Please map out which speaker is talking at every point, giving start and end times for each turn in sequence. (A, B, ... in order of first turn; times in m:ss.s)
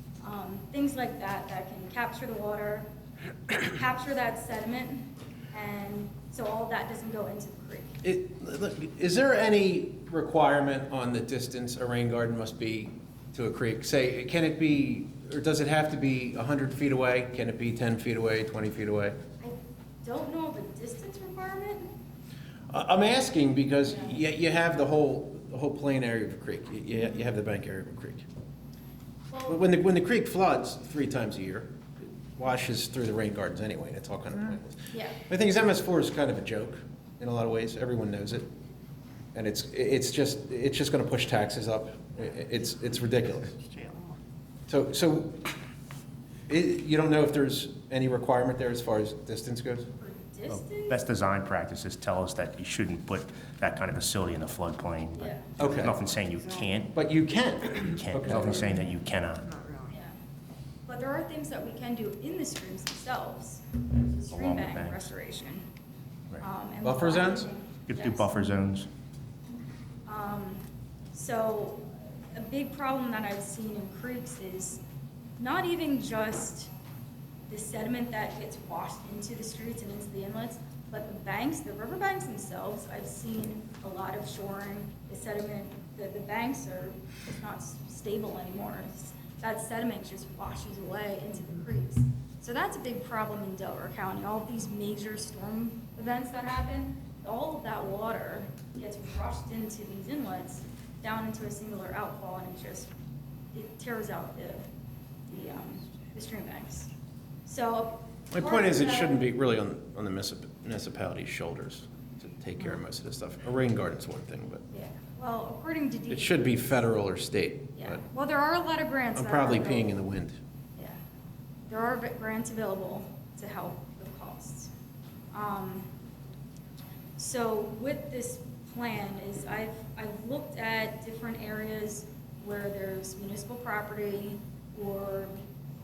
0:00.2-0:02.9 A
0:03.5-0:07.9 A
0:08.0-0:19.2 B
0:19.4-0:21.9 A
0:22.7-0:28.2 B
0:23.8-0:24.2 A
0:29.3-0:29.6 A
0:29.5-0:38.4 B
0:34.9-0:35.2 A
0:39.3-0:43.8 B
0:44.7-0:45.4 B
0:46.5-0:49.9 B
0:50.0-0:51.0 A
0:50.5-0:56.9 C
0:55.2-0:55.5 A
0:55.6-0:56.0 B
0:56.9-0:58.8 B
0:57.9-0:59.5 C
0:59.9-1:00.2 A
1:00.9-1:05.6 A
1:04.3-1:05.1 C
1:06.4-1:08.3 A
1:06.8-1:07.5 B
1:07.9-1:08.9 C
1:10.0-1:10.6 A
1:11.1-1:14.8 A
1:15.4-1:16.7 A
1:17.5-1:42.9 A
1:43.5-1:44.6 A
1:45.3-1:46.9 A
1:47.4-1:49.2 A
1:48.3-1:54.6 B
1:54.7-1:56.6 A
1:56.1-1:58.0 B
1:57.8-2:00.0 A
1:59.1-2:00.4 B
2:01.7-2:04.7 A
2:05.3-2:05.9 A
2:07.2-2:15.3 A